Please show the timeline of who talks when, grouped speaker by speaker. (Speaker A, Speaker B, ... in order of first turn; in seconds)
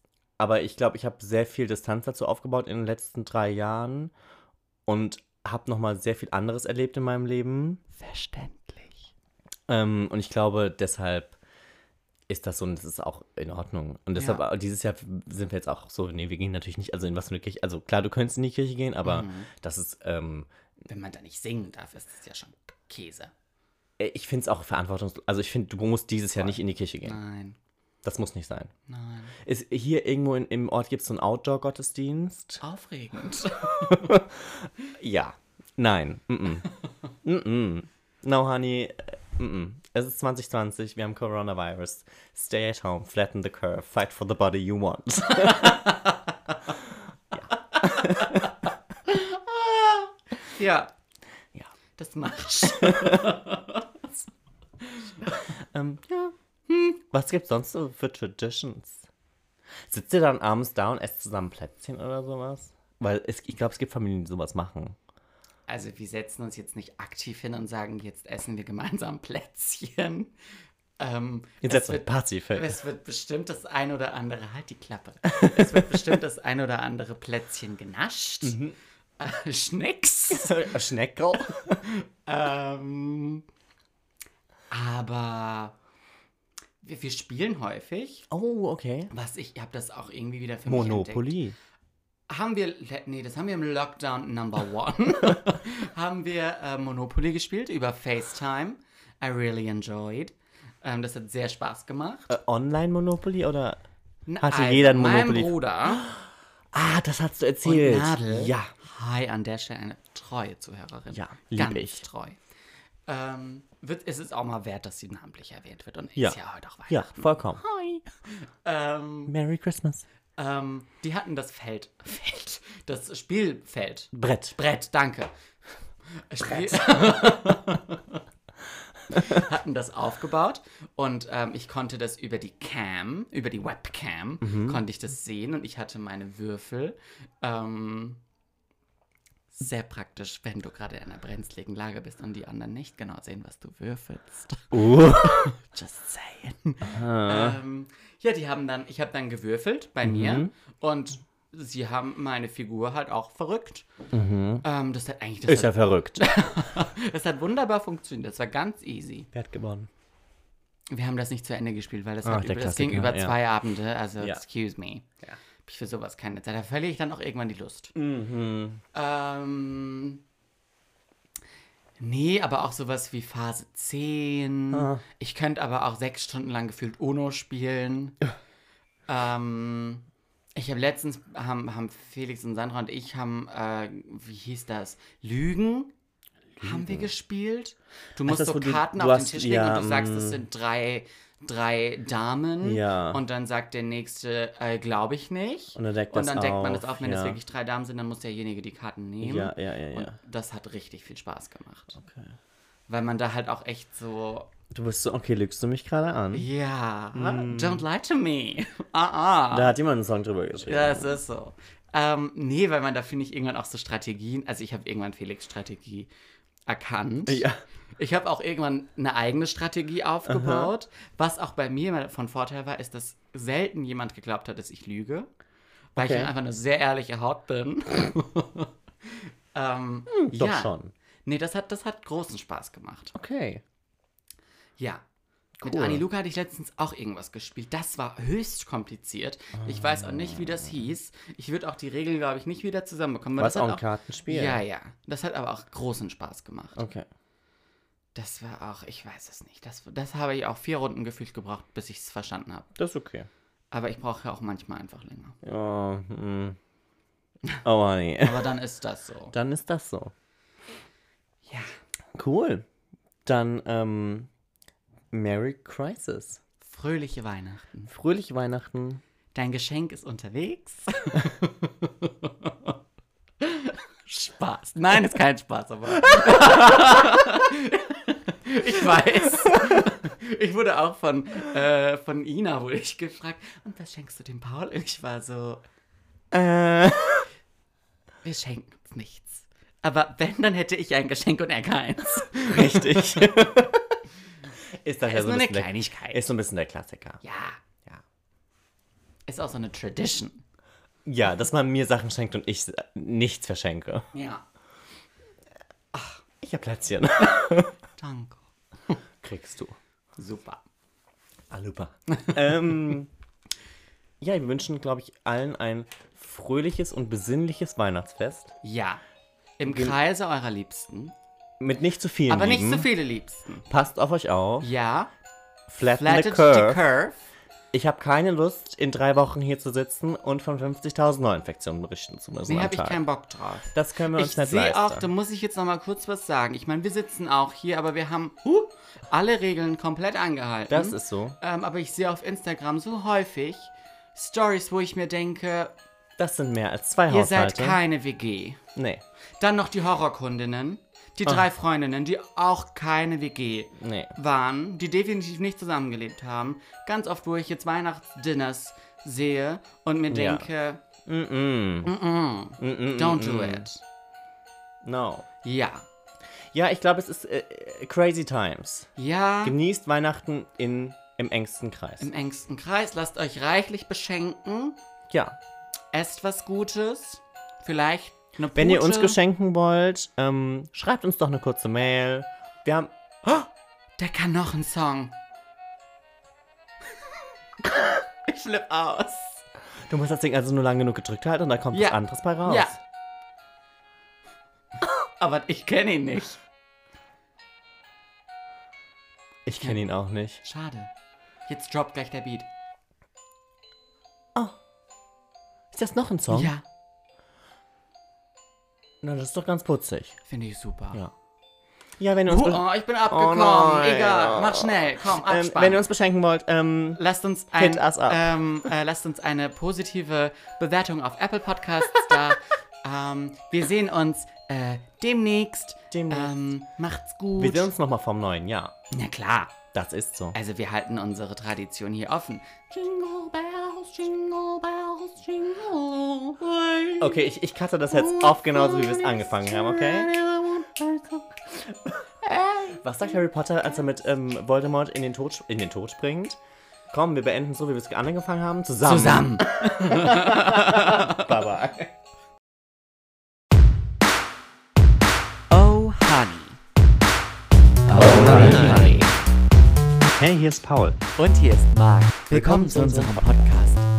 Speaker A: 0.4-4.1, 4.9-7.8, 9.7-11.3, 12.3-20.5, 24.0-27.2, 28.0-28.7, 29.4-32.6, 33.8-36.7, 37.2-46.0, 47.3-48.5, 52.6-53.4, 55.5-59.0, 59.8-65.0, 71.6-72.8, 75.4-76.0, 78.4-78.7, 80.3-81.9, 88.3-89.1, 90.7-91.5, 102.3-103.8, 104.4-108.7, 111.1-112.0, 116.9-117.6, 119.3-120.0, 124.1-124.6, 126.4-127.7, 129.1-129.4, 134.4-134.8, 144.7-145.6, 146.9-147.6, 150.0-150.5, 154.1-154.6, 155.5-156.3, 159.3-159.9, 162.2-163.4, 167.9-168.8, 174.7-175.0, 186.6-187.1, 188.2-190.4, 192.6-193.2, 195.7-197.4, 199.2-200.2, 202.0-202.3, 204.7-206.4, 207.1-207.8, 209.5-211.1, 217.3-217.6, 220.2-220.7, 226.0-226.3, 230.1-230.9, 233.1-233.6, 235.6-236.0, 239.6-240.7, 243.4-244.6, 246.8-247.0, 252.8-253.3, 255.4-256.6, 257.6-258.6, 259.3-260.1, 262.1-262.6, 263.2-264.3, 265.1-266.4, 267.9-269.0, 276.1-277.2, 279.5-279.9, 286.3-287.3, 292.4-294.0, 294.8-297.2, 301.0-304.1, 306.4-307.7, 309.2-309.8, 311.5-313.1, 314.2-318.5, 319.6-320.0, 321.6-322.9, 323.7-324.7, 325.7-326.8, 327.7-333.0, 333.7-335.1, 340.7-341.4, 346.2-347.8, 348.8-349.0, 353.8-354.1, 360.1-360.5, 361.0-361.9, 362.6-363.7, 364.8-365.2, 366.5-368.9, 369.4-372.1, 375.1-375.4, 378.5-383.5, 389.9-392.8, 399.4-400.4, 405.7-406.5, 409.0-410.2, 412.0-417.0, 417.5-418.3, 421.9-422.3, 425.9-426.3, 427.4-428.7, 429.7-430.4, 437.0-440.1, 441.5-446.4, 446.9-451.9, 457.9-459.1, 460.1-461.0, 462.3-463.3
Speaker B: 7.9-9.1, 14.2-14.4, 19.0-19.5, 20.9-23.3, 26.4-27.6, 28.9-29.4, 32.6-34.2, 45.2-46.7, 47.5-50.9, 52.0-53.9, 54.8-55.5, 65.7-70.3, 71.0-78.6, 79.2-80.7, 81.7-83.4, 84.7-85.8, 86.8-88.2, 89.1-91.3, 92.3-102.3, 104.3-106.0, 107.6-112.4, 113.1-119.3, 120.4-125.3, 126.1-128.2, 129.1-138.2, 139.5-153.9, 154.6-159.3, 160.9-165.1, 165.6-167.9, 168.9-170.2, 172.0-178.2, 179.1-185.9, 186.6-202.0, 202.9-204.5, 206.3-209.7, 210.6-216.1, 216.7-217.4, 218.0-225.3, 225.9-233.1, 234.8-235.0, 235.6-246.8, 248.1-252.7, 253.7-255.4, 258.2-259.3, 261.4-261.7, 266.6-267.9, 269.3-272.7, 273.4-285.6, 288.2-293.4, 295.0-296.3, 297.2-297.6, 299.3-300.4, 304.1-304.4, 305.9-306.2, 308.0-308.9, 310.2-310.6, 318.6-319.0, 319.6-321.1, 322.3-323.7, 324.6-325.1, 325.9-327.2, 332.5-345.7, 347.1-348.6, 349.4-360.8, 361.8-363.8, 365.4-365.9, 369.0-369.6, 372.0-374.8, 375.9-379.2, 384.0-385.1, 387.6-389.4, 391.7-392.7, 394.8-396.4, 400.4-400.9, 401.5-402.5, 406.3-406.6, 410.3-411.0, 412.3-415.8, 416.9-427.7, 428.9-429.5, 430.3-437.2, 437.9-441.3, 448.8-451.4, 455.5-456.6, 457.9-459.1, 461.2-463.9